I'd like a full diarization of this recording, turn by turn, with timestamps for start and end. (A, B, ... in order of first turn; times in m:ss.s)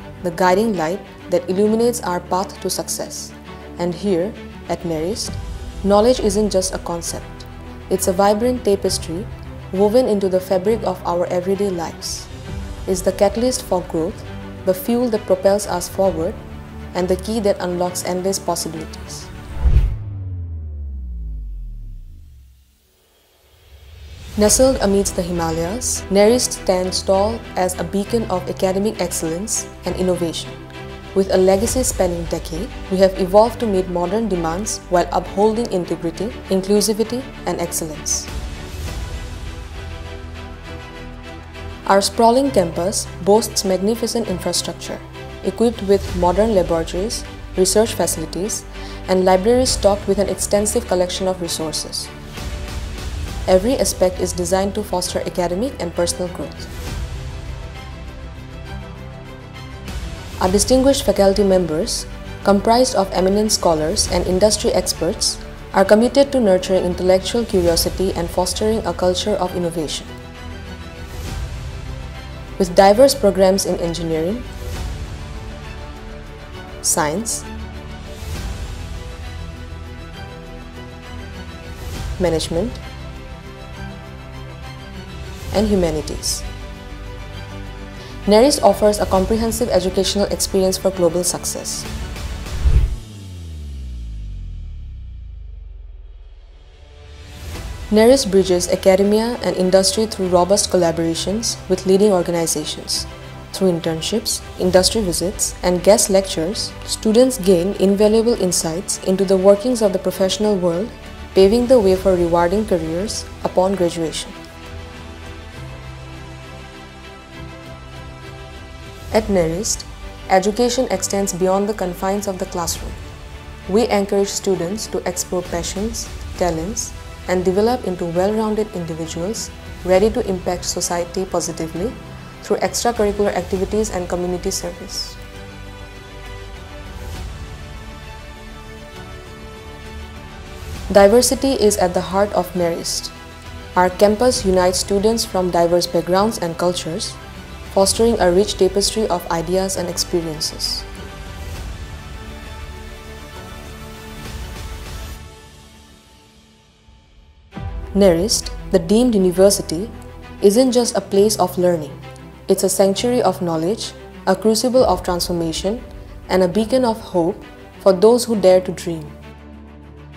0:00.2-0:12.3 A
0:12.8-0:16.4 A
0:16.9-0:19.3 A
0:24.4-0:30.6 A
0:31.1-0:38.3 A
0:41.8-0:52.1 A
0:53.5-0:56.7 A
1:00.4-1:10.1 A
1:12.6-1:14.4 A
1:16.8-1:17.5 A
1:22.2-1:22.8 A
1:25.5-1:26.4 A
1:28.2-1:31.9 A
1:37.9-1:54.4 A
1:59.1-2:03.0 A
2:03.7-2:15.2 A
2:20.9-2:23.1 A
2:23.7-2:27.2 A
2:27.7-2:30.8 A
2:37.9-2:49.1 A